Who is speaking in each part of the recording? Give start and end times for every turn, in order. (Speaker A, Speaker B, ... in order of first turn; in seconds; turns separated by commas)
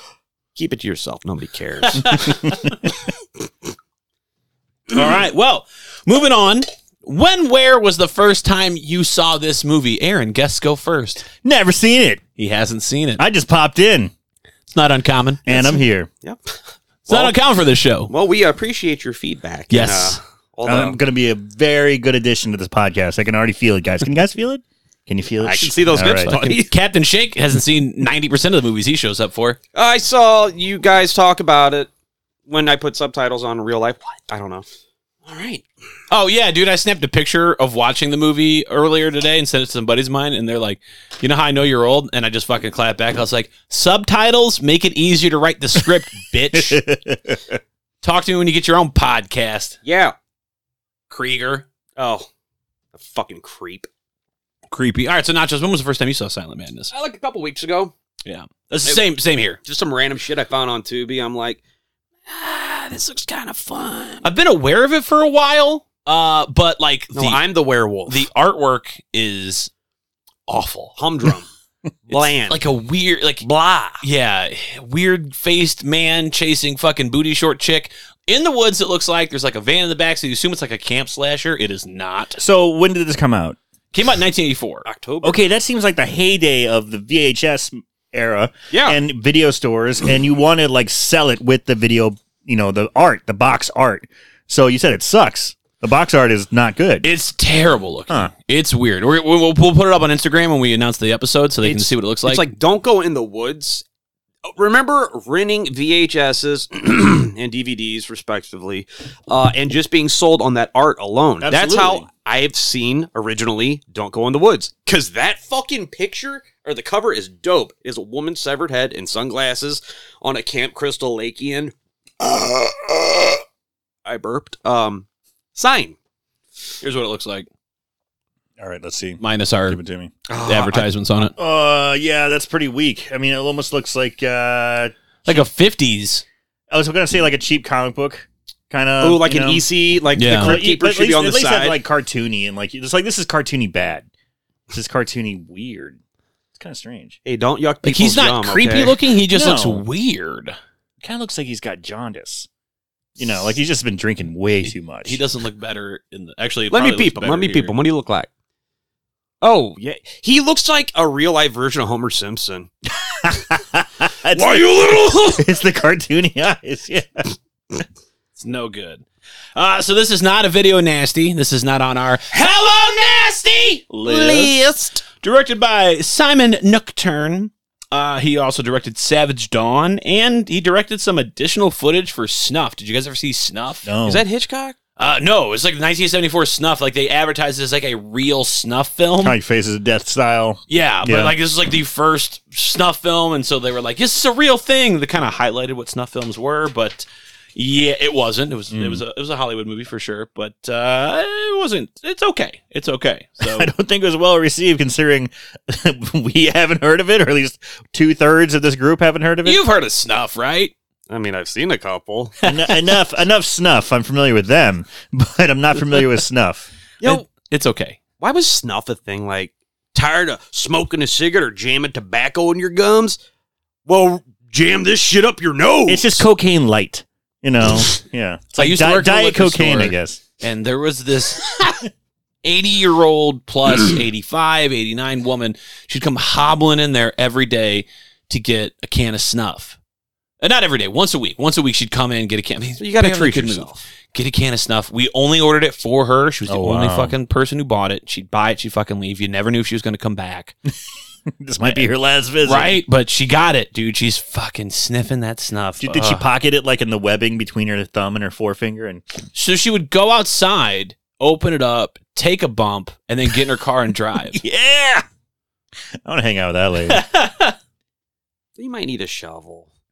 Speaker A: 0.6-2.4, Speaker B: 1.9-2.5, Speaker B: 4.9-11.3, Speaker C: 11.4-12.2, Speaker B: 12.4-13.2, Speaker C: 13.2-14.1, Speaker B: 14.7-15.5, Speaker C: 15.4-16.1, Speaker A: 15.5-17.4, Speaker B: 17.1-18.1, Speaker A: 18.1-21.0, Speaker B: 19.7-20.2, Speaker C: 20.6-26.3, Speaker A: 25.4-26.7, Speaker B: 26.2-29.6, Speaker A: 29.7-31.9, Speaker A: 32.5-34.6, Speaker A: 35.2-35.6, Speaker B: 36.1-46.8, Speaker C: 46.5-47.5, Speaker B: 48.0-49.8, Speaker A: 49.8-50.1, Speaker B: 51.1-51.6, Speaker A: 52.0-52.3, Speaker A: 52.9-53.9, Speaker B: 54.7-56.9, Speaker A: 56.9-57.9, Speaker B: 58.2-59.6, Speaker A: 59.6-61.6, Speaker A: 62.3-64.2, Speaker B: 64.2-67.4, Speaker A: 67.1-68.2, Speaker B: 68.1-69.7, Speaker B: 70.5-71.0, Speaker A: 71.0-71.5, Speaker A: 72.1-72.6, Speaker B: 72.1-73.4, Speaker A: 73.4-74.0, Speaker B: 74.0-82.4, Speaker C: 82.4-83.6, Speaker B: 83.9-84.9, Speaker A: 84.9-85.5, Speaker C: 85.2-97.1, Speaker A: 88.7-89.0, Speaker B: 97.0-102.5, Speaker A: 101.6-103.8, Speaker A: 104.5-123.4, Speaker C: 111.4-112.0, Speaker A: 124.0-126.0, Speaker B: 126.8-127.5, Speaker C: 128.6-130.1, Speaker B: 129.2-129.8, Speaker A: 130.3-130.9, Speaker B: 130.4-131.3, Speaker C: 131.4-135.4, Speaker B: 135.3-136.2, Speaker C: 136.7-139.7, Speaker A: 139.0-141.8, Speaker B: 140.1-140.6, Speaker C: 140.3-144.1, Speaker C: 144.7-146.0, Speaker C: 146.6-147.2, Speaker A: 147.2-149.0, Speaker B: 147.8-150.6, Speaker C: 149.3-149.8, Speaker C: 151.0-152.5, Speaker C: 153.2-155.2, Speaker B: 155.1-157.8, Speaker A: 156.7-158.3, Speaker A: 159.4-162.7, Speaker C: 163.2-167.3, Speaker A: 164.3-165.4, Speaker B: 168.4-183.9, Speaker C: 183.8-184.3, Speaker A: 184.0-184.8, Speaker B: 185.0-189.4, Speaker C: 189.2-191.4, Speaker B: 190.7-203.7, Speaker C: 198.7-199.0, Speaker C: 203.4-209.6, Speaker B: 209.4-210.7, Speaker A: 211.1-212.3, Speaker B: 212.4-212.9, Speaker C: 212.4-216.7, Speaker A: 217.0-217.3, Speaker B: 217.0-218.0, Speaker A: 218.2-223.2, Speaker A: 223.9-226.3, Speaker C: 225.9-230.2, Speaker B: 228.5-231.9, Speaker B: 232.4-239.8, Speaker B: 240.4-250.6, Speaker A: 242.8-243.8, Speaker C: 246.5-247.1, Speaker C: 251.4-252.8, Speaker B: 251.6-251.9, Speaker B: 252.4-256.2, Speaker C: 255.8-259.0, Speaker B: 259.3-264.4, Speaker C: 264.3-265.0, Speaker C: 266.0-267.0, Speaker B: 266.9-267.6, Speaker A: 268.6-269.7